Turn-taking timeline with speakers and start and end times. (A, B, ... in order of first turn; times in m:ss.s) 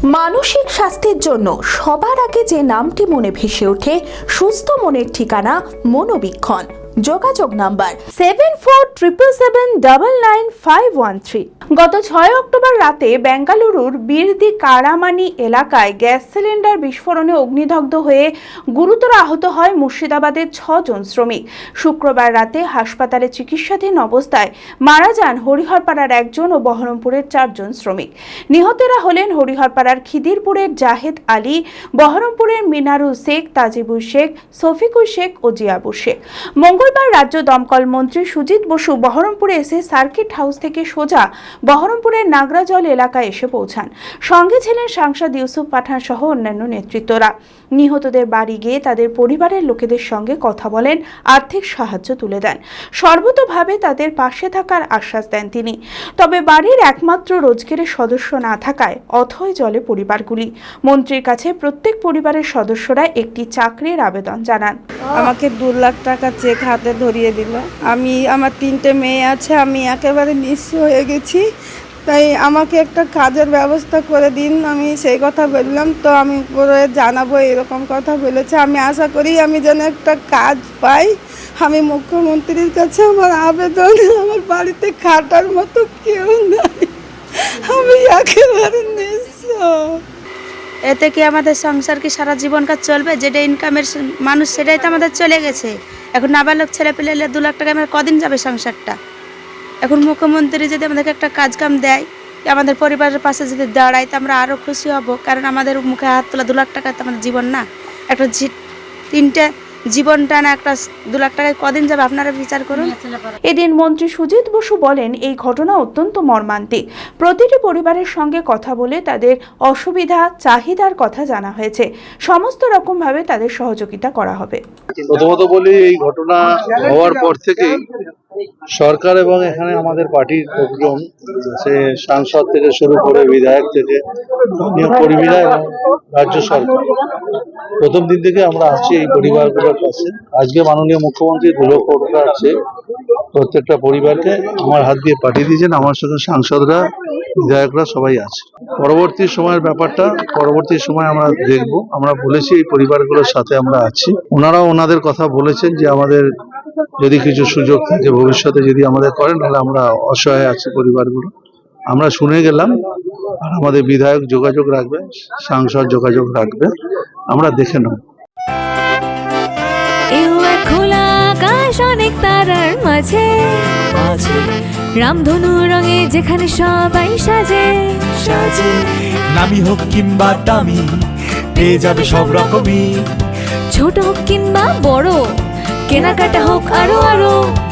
0:00.1-1:04.8 A
1:05.1-1:11.4 B
1:12.1-1:30.0 B
1:30.9-1:38.9 C
1:39.8-1:48.5 C
1:49.1-1:52.9 C
1:53.5-2:04.6 A
2:05.0-2:07.8 D
2:08.7-2:14.0 D
2:14.6-2:16.9 D
2:17.8-2:22.5 D
2:23.3-2:36.3 D
2:37.0-2:41.3 D
2:41.9-2:42.8 D
2:43.4-2:46.7 D
2:47.3-2:48.0 D
2:50.2-2:54.4 E
2:54.0-2:54.4 F
2:55.0-2:58.7 E
2:58.2-2:58.7 F
2:59.3-3:00.8 F
3:01.6-3:02.5 E
3:01.6-3:03.0 F
3:03.7-3:05.2 E
3:05.9-3:07.5 E